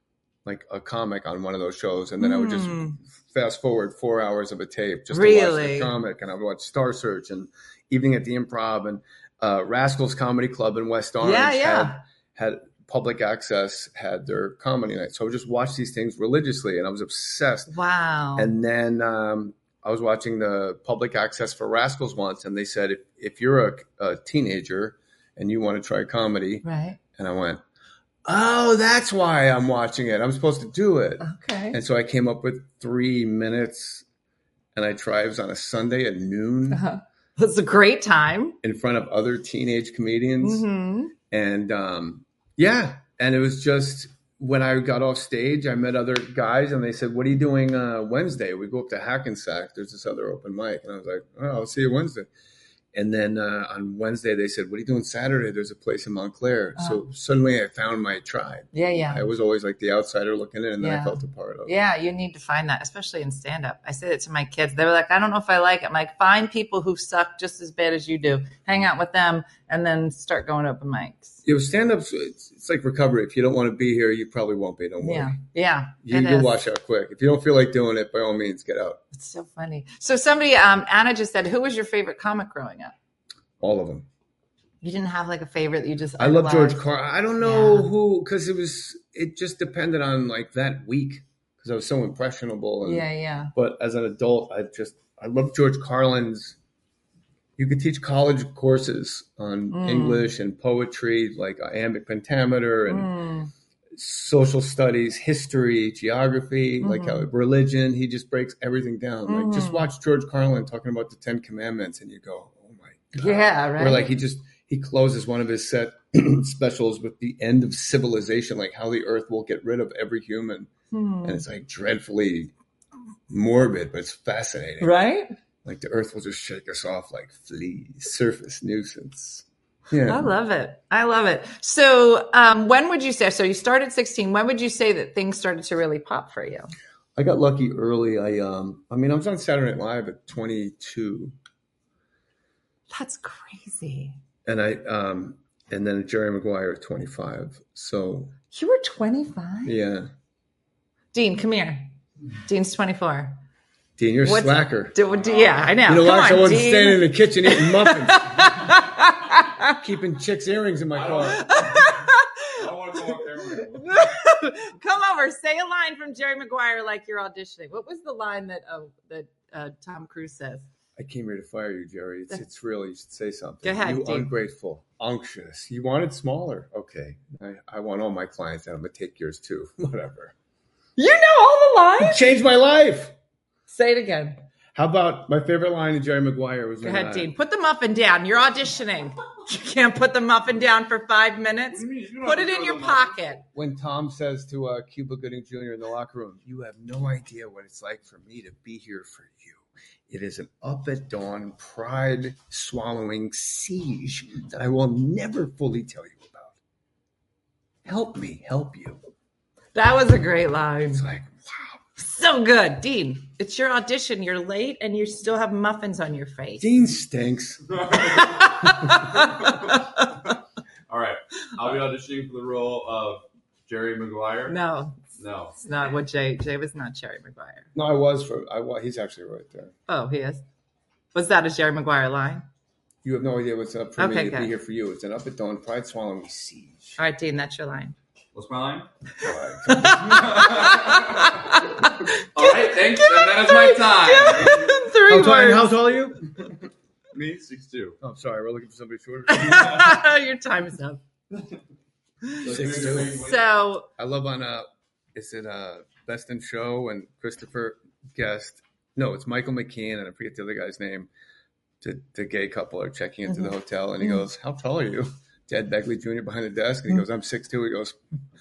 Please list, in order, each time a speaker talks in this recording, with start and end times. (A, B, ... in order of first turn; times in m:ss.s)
0:00.4-0:17.7 A
0:02.2-0:03.0 B
0:05.1-0:05.9 B
0:11.2-0:12.0 B
0:17.7-0:18.5 B
0:18.4-0:27.6 A
0:26.6-0:27.0 B
0:28.2-0:34.0 A
0:31.2-0:31.8 B
0:34.7-0:36.8 A
0:36.7-0:38.6 B
0:38.6-0:40.6 A
0:40.4-0:41.1 B
0:41.3-0:52.3 A
0:52.9-1:01.7 A
0:56.8-0:57.0 B
0:58.7-0:59.2 B
1:00.8-1:11.4 B
1:11.4-1:15.4 A
1:15.0-1:16.6 B
1:16.0-1:19.0 A
1:19.1-1:22.9 B
1:23.6-1:24.1 A
1:24.8-1:26.8 B
1:26.2-1:36.6 A
1:27.4-1:27.9 B
1:32.8-1:33.5 B
1:37.6-1:43.1 A
1:39.7-1:40.2 B
1:42.9-1:43.5 B
1:43.9-2:00.7 A
1:46.8-1:47.3 B
1:49.2-1:49.9 B
1:53.2-1:54.1 B
2:00.9-2:01.4 B
2:01.2-2:02.5 A
2:03.3-2:04.9 A
2:04.8-2:05.3 B
2:05.6-2:10.3 A
2:10.0-2:16.7 B
2:17.2-2:21.3 A
2:22.9-2:24.2 B
2:24.4-2:28.3 A
2:28.5-2:29.8 B
2:29.6-2:30.1 A
2:31.1-2:31.9 B
2:32.4-2:33.4 B
2:34.0-2:35.0 A
2:34.2-2:39.8 B
2:35.1-2:35.7 C
2:35.8-2:38.4 A
2:39.8-2:41.5 A
2:40.9-2:44.0 C
2:41.2-2:42.4 B
2:42.9-2:50.7 B
2:51.0-3:00.3 A
2:53.6-2:54.3 B
3:01.0-3:02.3 B
3:02.0-3:03.1 A
3:03.7-3:04.4 B
3:04.7-3:07.3 A
3:06.8-3:13.4 B
3:11.7-3:13.2 C
3:13.5-3:26.6 A
3:27.8-3:29.0 A
3:29.7-3:31.0 B
3:30.9-3:31.8 A
3:32.0-3:36.8 B
3:36.6-3:37.6 A
3:37.8-3:40.3 C
3:38.0-3:40.0 B
3:40.9-3:44.6 C
3:44.5-3:45.0 B
3:45.2-3:45.5 C
3:45.6-3:47.7 B
3:47.7-3:49.7 A
3:49.9-3:50.4 B
3:51.1-3:52.4 B
3:53.0-3:57.0 A
3:54.0-3:54.5 B
3:57.0-3:57.9 B
3:58.3-3:58.9 C
3:59.2-4:00.2 A
3:59.7-4:05.7 B
3:59.8-4:01.6 C
4:02.3-4:04.9 C
4:05.1-4:06.4 A
4:07.1-4:08.0 C
4:08.0-4:10.0 A
4:09.3-4:11.0 B
4:12.2-4:13.9 B
4:12.4-4:13.4 C
4:12.4-4:13.2 A
4:14.0-4:21.1 A
4:21.8-4:28.0 A